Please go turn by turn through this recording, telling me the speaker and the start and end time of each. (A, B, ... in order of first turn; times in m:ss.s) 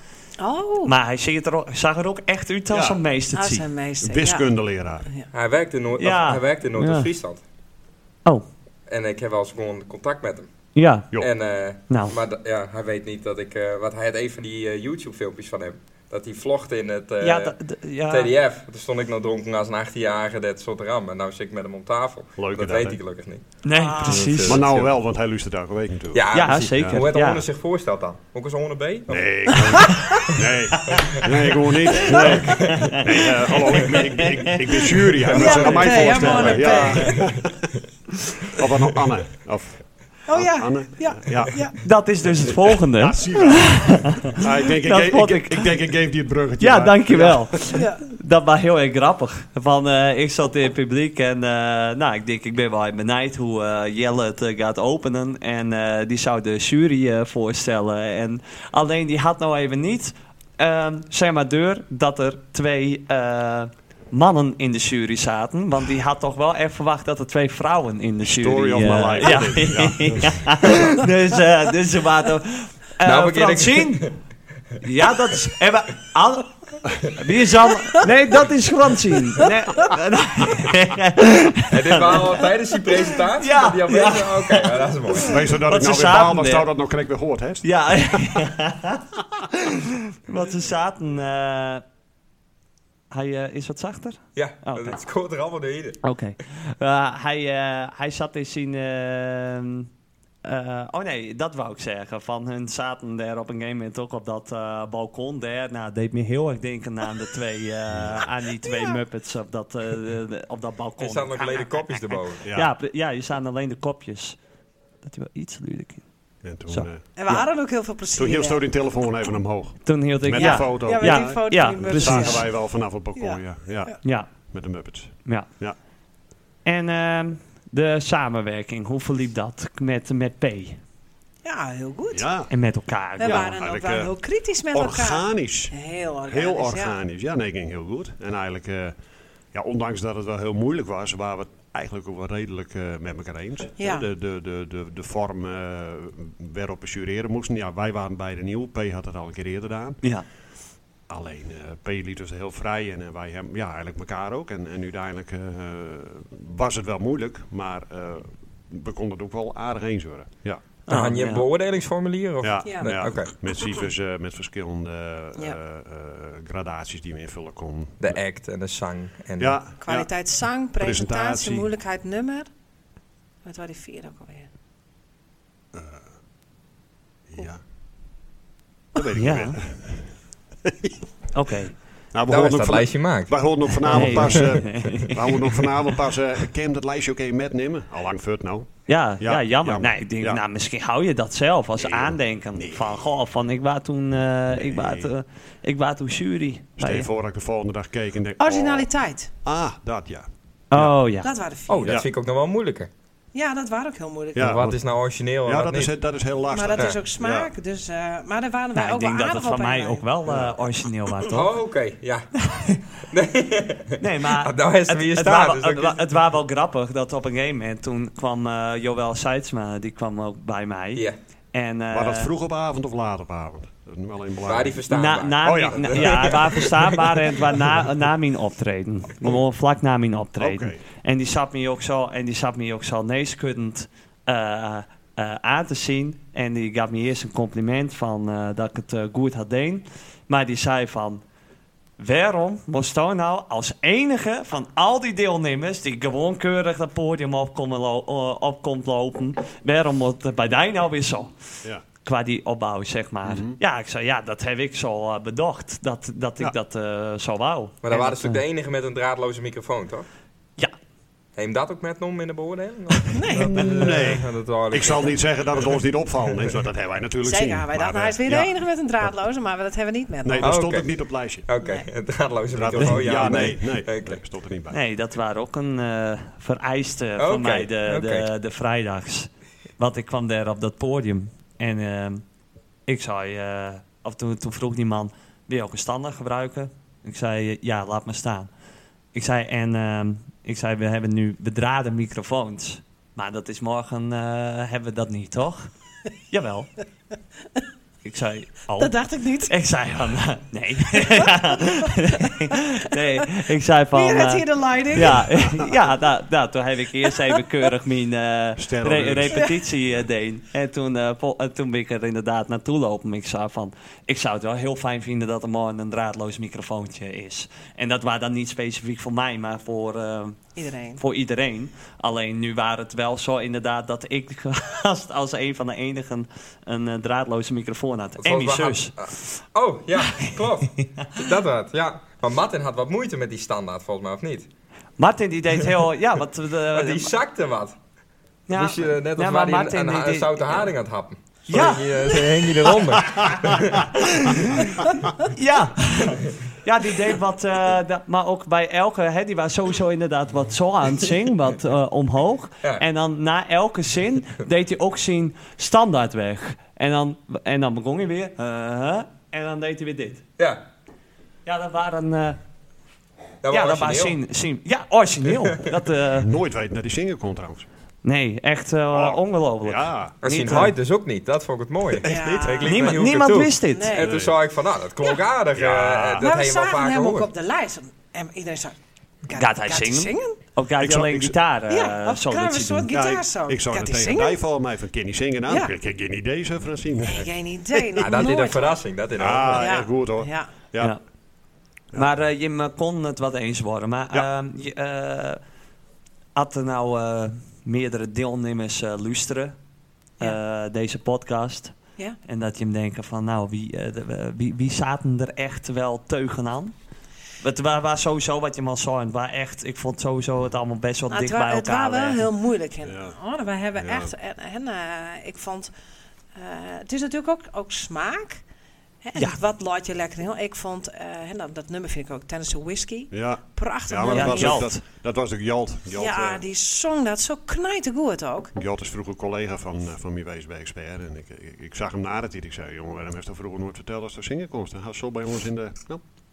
0:00.4-0:00.9 A
0:00.8-0:03.7 B
0:02.7-0:03.0 C
0:03.3-0:04.5 A
0:04.0-0:05.1 C
0:05.3-0:07.4 D
0:06.0-0:07.1 B
0:08.9-0:10.5 D
0:10.8-0:11.1 B
0:11.2-0:24.9 D
0:11.9-0:12.1 B
0:17.2-0:18.3 B
0:22.4-0:23.0 C
0:23.6-0:24.7 B
0:23.7-0:24.2 A
0:24.4-0:27.0 C
0:26.1-0:29.5 D
0:26.3-0:27.4 B
0:29.1-0:37.7 C
0:30.9-0:31.2 D
0:32.5-0:32.9 D
0:32.5-0:33.0 B
0:33.9-0:34.6 B
0:35.3-0:37.3 A
0:35.4-0:37.1 B
0:35.5-0:37.3 D
0:38.5-0:41.5 C
0:40.3-0:41.8 A
0:41.8-0:45.7 B
0:42.4-0:47.6 C
0:46.6-1:14.1 B
0:47.7-0:48.0 A
1:08.2-1:10.8 C
1:13.0-1:14.1 D
1:14.8-1:22.4 B
1:21.7-1:25.4 D
1:23.4-1:24.8 B
1:25.2-1:28.4 C
1:25.7-1:26.7 B
1:27.6-1:31.8 B
1:33.1-1:35.0 B
1:34.4-1:36.0 D
1:36.0-1:39.9 B
1:40.4-1:54.4 B
1:47.9-1:48.2 C
1:48.6-1:49.0 A
1:51.0-1:52.4 D
1:52.4-1:52.7 C
1:55.0-1:56.0 B
1:56.4-1:57.4 C
1:56.7-1:57.3 B
1:57.2-1:58.6 A
1:58.1-2:05.8 C
1:59.8-2:02.4 B
2:00.4-2:02.5 A
2:04.0-2:04.3 B
2:06.6-2:10.8 B
2:11.4-2:12.3 A
2:12.1-2:12.5 C
2:12.5-2:13.5 B
2:13.2-2:14.1 C
2:13.2-2:17.0 A
2:14.7-2:15.8 C
2:16.2-2:19.0 C
2:19.5-2:30.0 C
2:23.8-2:24.0 A
2:31.1-2:40.6 C
2:40.9-2:41.4 B
2:40.9-2:43.3 D
2:42.4-2:48.2 C
2:48.0-2:49.6 D
2:49.4-2:50.1 C
2:49.8-2:52.5 A
2:50.8-2:51.7 C
2:53.4-2:54.5 A
2:55.7-2:56.1 C
2:57.3-2:57.6 C
2:58.9-3:01.0 C
2:59.2-2:59.6 B
3:01.3-3:01.8 B
3:02.1-3:10.4 C
3:02.3-3:04.6 D
3:03.9-3:05.6 B
3:08.9-3:17.1 B
3:11.8-3:13.1 C
3:14.5-3:15.1 C
3:16.8-3:18.9 C
3:18.4-3:19.3 A
3:19.4-3:21.0 C
3:20.7-3:21.3 B
3:21.2-3:21.9 A
3:21.7-3:22.9 D
3:23.3-3:24.5 A
3:24.3-3:24.8 C
3:24.4-3:25.9 D
3:25.4-3:27.5 C
3:26.5-3:30.0 A
3:28.8-3:31.5 B
3:30.3-3:30.5 C
3:31.3-3:32.3 D
3:32.5-3:32.8 B
3:33.0-3:36.0 D
3:34.0-3:42.3 B
3:41.9-3:44.8 C
3:44.4-3:46.7 D
3:44.9-4:01.2 B
3:45.4-3:46.8 C
3:50.4-3:50.8 C
4:02.0-4:11.4 B
4:12.0-4:18.4 B
4:13.2-4:13.6 C
4:17.8-4:20.0 D
4:21.4-4:25.2 D
4:23.1-4:24.0 A
4:23.4-4:29.1 C
4:27.2-4:30.5 A
4:30.2-4:31.5 C
4:30.4-4:30.9 D
4:31.5-4:34.2 D
4:31.6-4:31.8 A
4:32.5-4:34.8 C
4:34.7-4:42.2 B
4:37.2-4:38.3 D
4:42.9-4:48.5 B
4:49.1-4:55.7 B
4:56.3-4:56.7 B
4:58.0-5:20.4 B
4:58.8-4:59.5 A
5:01.0-5:01.6 A
5:03.9-5:05.6 A
5:08.6-5:09.5 C
5:09.3-5:09.5 A
5:20.6-5:21.0 A
5:21.0-5:29.0 B
5:28.2-5:34.5 D
5:30.2-5:31.1 B
5:35.0-5:37.1 B
5:36.7-5:37.8 D
5:38.5-5:40.6 B
5:38.5-5:43.9 D
5:41.5-5:42.1 B
5:43.7-5:44.7 B
5:44.4-5:44.7 D
5:45.2-6:00.2 B
6:01.5-6:02.4 B
6:03.4-6:04.2 D
6:03.5-6:06.3 B
6:05.3-6:05.7 D
6:06.2-6:07.7 C
6:08.0-6:10.7 B
6:08.9-6:10.7 C
6:10.2-6:17.3 D
6:11.9-6:13.1 C
6:12.1-6:12.6 A
6:12.6-6:14.0 B
6:13.7-6:14.0 A
6:14.0-6:14.4 C
6:15.5-6:16.3 C
6:16.2-6:20.4 A
6:19.3-6:22.9 B
6:20.8-6:21.4 C
6:21.7-6:24.3 A
6:22.9-6:28.3 C
6:25.5-6:25.7 A
6:27.1-6:28.8 A
6:28.0-6:29.8 D
6:29.2-6:31.0 C
6:29.5-6:30.5 A
6:31.9-6:35.4 B
6:36.4-6:39.6 B
6:40.2-6:46.7 B
6:47.4-6:52.2 B
6:51.1-6:55.7 A
6:52.8-6:53.2 C
6:53.8-6:54.1 C
6:56.3-6:58.4 A
6:59.0-7:04.7 A
7:03.1-7:06.4 C
7:04.1-7:04.8 B
7:05.9-7:08.5 A
7:08.5-7:16.0 C